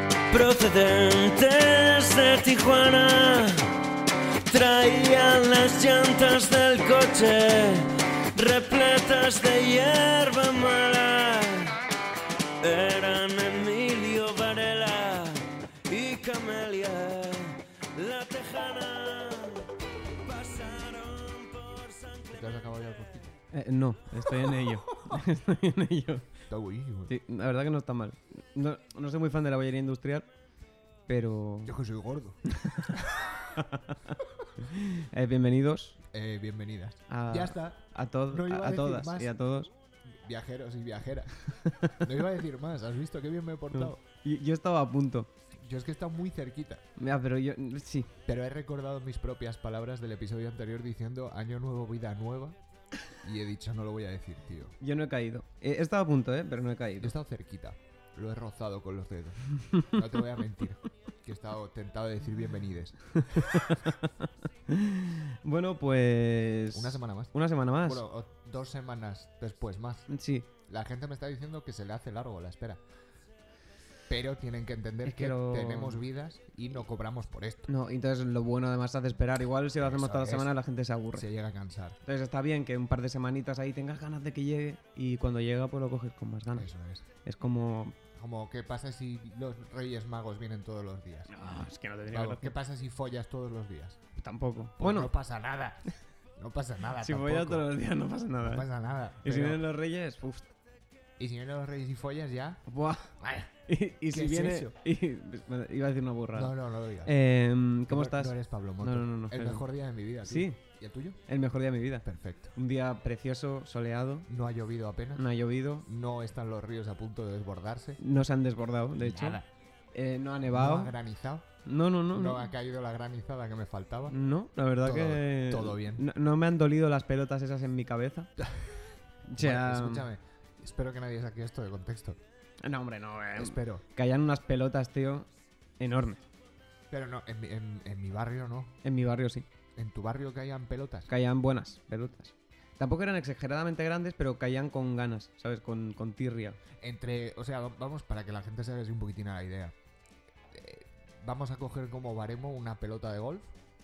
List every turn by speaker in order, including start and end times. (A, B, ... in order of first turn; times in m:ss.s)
0:00.3-0:03.7 A
0:04.5-0:11.8 A
0:12.6-0:22.5 A
0:22.3-0:23.3 B
0:23.5-0:26.3 C
0:26.5-0:27.2 B
0:27.1-0:30.3 C
0:31.1-0:31.8 C
0:31.7-0:33.6 B
0:32.5-0:33.0 C
0:33.6-0:36.0 C
0:36.1-0:39.4 B
0:37.1-0:39.7 C
0:40.0-0:44.0 B
0:41.7-0:42.1 C
0:43.7-0:45.3 C
0:45.6-0:46.8 B
0:47.0-0:48.2 C
0:48.3-0:52.6 B
0:53.2-0:54.8 B
0:54.8-0:57.1 C
0:57.0-1:03.8 B
1:03.3-1:08.0 C
1:06.7-1:10.1 B
1:10.1-1:10.5 C
1:10.7-1:12.8 B
1:14.1-1:17.7 B
1:15.0-1:16.0 C
1:17.7-1:21.3 C
1:19.8-1:20.5 B
1:21.1-1:22.0 B
1:22.0-1:26.7 C
1:26.6-1:27.0 B
1:27.2-1:28.0 C
1:28.2-1:31.3 B
1:31.3-1:32.6 C
1:32.1-1:34.0 B
1:34.2-1:35.1 C
1:34.8-1:35.8 B
1:36.4-1:37.7 B
1:37.0-1:38.7 C
1:38.4-1:39.6 B
1:39.2-1:40.5 C
1:41.2-1:42.6 B
1:42.7-1:49.7 C
1:43.2-1:43.5 B
1:44.1-1:44.7 B
1:46.3-1:47.2 B
1:47.9-1:51.2 B
1:50.2-1:50.6 C
1:51.3-1:54.3 C
1:52.1-1:52.5 B
1:54.3-1:55.2 B
1:55.2-1:55.9 C
1:55.8-1:58.0 B
1:58.0-1:59.4 C
1:59.0-1:59.5 B
1:59.9-2:01.0 C
2:00.5-2:01.5 B
2:01.6-2:02.5 C
2:02.1-2:04.2 B
2:04.1-2:08.3 C
2:04.8-2:06.1 B
2:08.4-2:08.8 B
2:09.3-2:10.1 C
2:09.4-2:12.2 B
2:12.6-2:16.2 C
2:13.4-2:13.8 B
2:16.9-2:18.8 B
2:18.8-2:19.4 C
2:19.8-2:21.1 B
2:21.1-2:26.6 C
2:26.8-2:29.8 B
2:30.5-2:33.5 B